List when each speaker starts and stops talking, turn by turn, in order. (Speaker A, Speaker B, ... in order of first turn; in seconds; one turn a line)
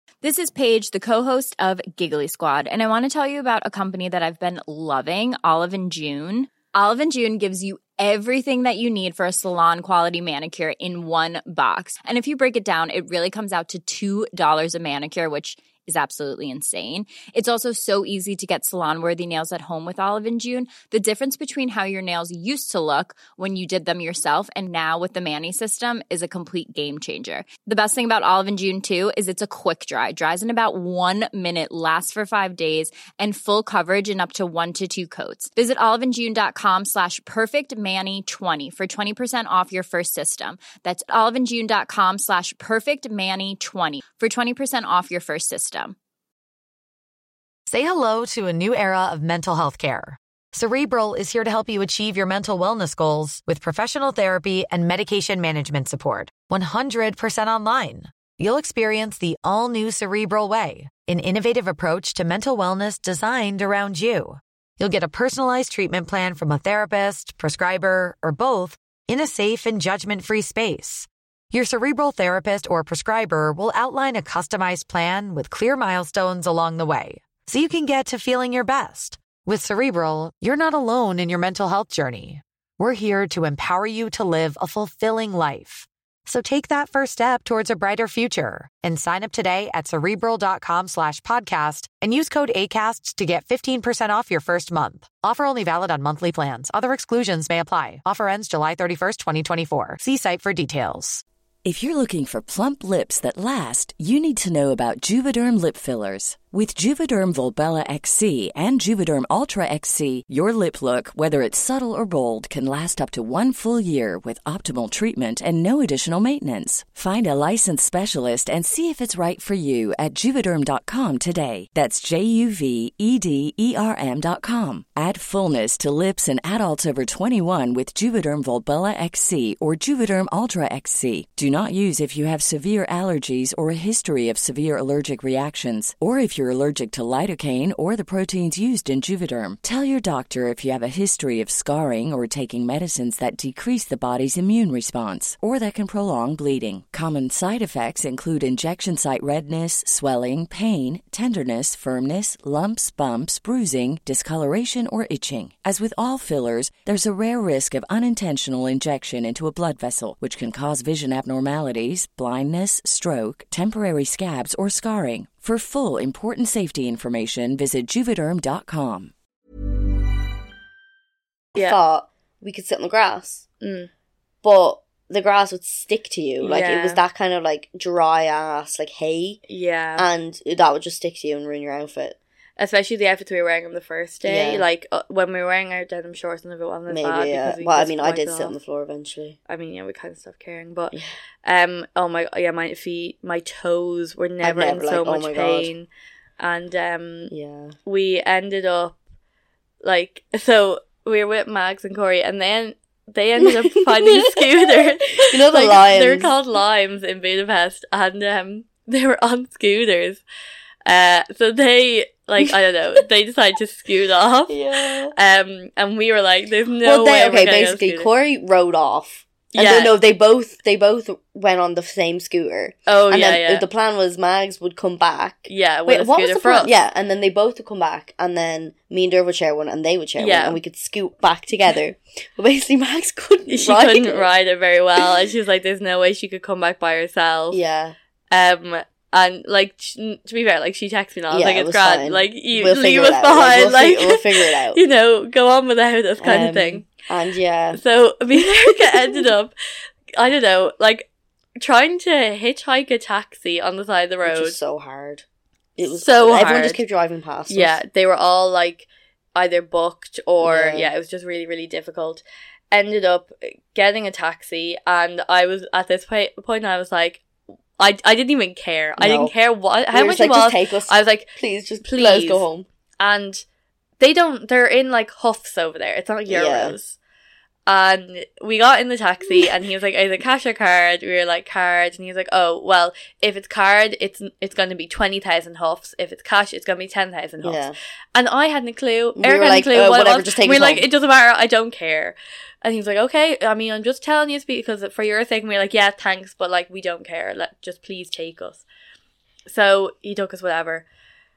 Speaker A: 0.2-46.0
Speaker B: 47.7-101.2
Speaker C: 101.6-169.1
Speaker D: 171.5-173.5
Speaker E: 173.6-173.9
Speaker D: 174.4-179.4
Speaker E: 176.4-177.0
Speaker E: 179.5-180.1
Speaker D: 180.0-182.2
Speaker E: 182.6-188.6
Speaker D: 184.2-184.6
Speaker D: 186.9-189.4
Speaker E: 189.5-195.9
Speaker D: 194.4-195.7
Speaker E: 196.4-197.3
Speaker D: 197.3-197.8
Speaker E: 197.8-199.0
Speaker E: 199.8-210.2
Speaker D: 203.4-206.3
Speaker E: 210.8-214.6
Speaker D: 214.5-215.1
Speaker E: 215.1-218.1
Speaker D: 216.8-234.3
Speaker E: 219.5-219.9
Speaker E: 222.9-223.7
Speaker E: 225.5-226.7
Speaker E: 230.2-230.6
Speaker E: 233.5-237.6
Speaker D: 237.5-237.9
Speaker E: 238.3-246.9
Speaker D: 241.3-244.8
Speaker D: 246.2-247.8
Speaker E: 247.7-249.5
Speaker D: 248.3-249.3
Speaker E: 250.1-254.6
Speaker D: 254.2-255.2
Speaker D: 255.8-257.8
Speaker E: 255.8-256.8
Speaker E: 257.5-267.2
Speaker D: 260.4-260.9
Speaker E: 267.8-272.5
Speaker D: 269.0-269.3
Speaker D: 269.9-272.6
Speaker E: 273.0-273.4
Speaker E: 274.0-277.0
Speaker D: 276.2-276.8
Speaker E: 277.7-298.6
Speaker D: 287.4-287.8
Speaker D: 289.1-290.9
Speaker E: 299.5-300.9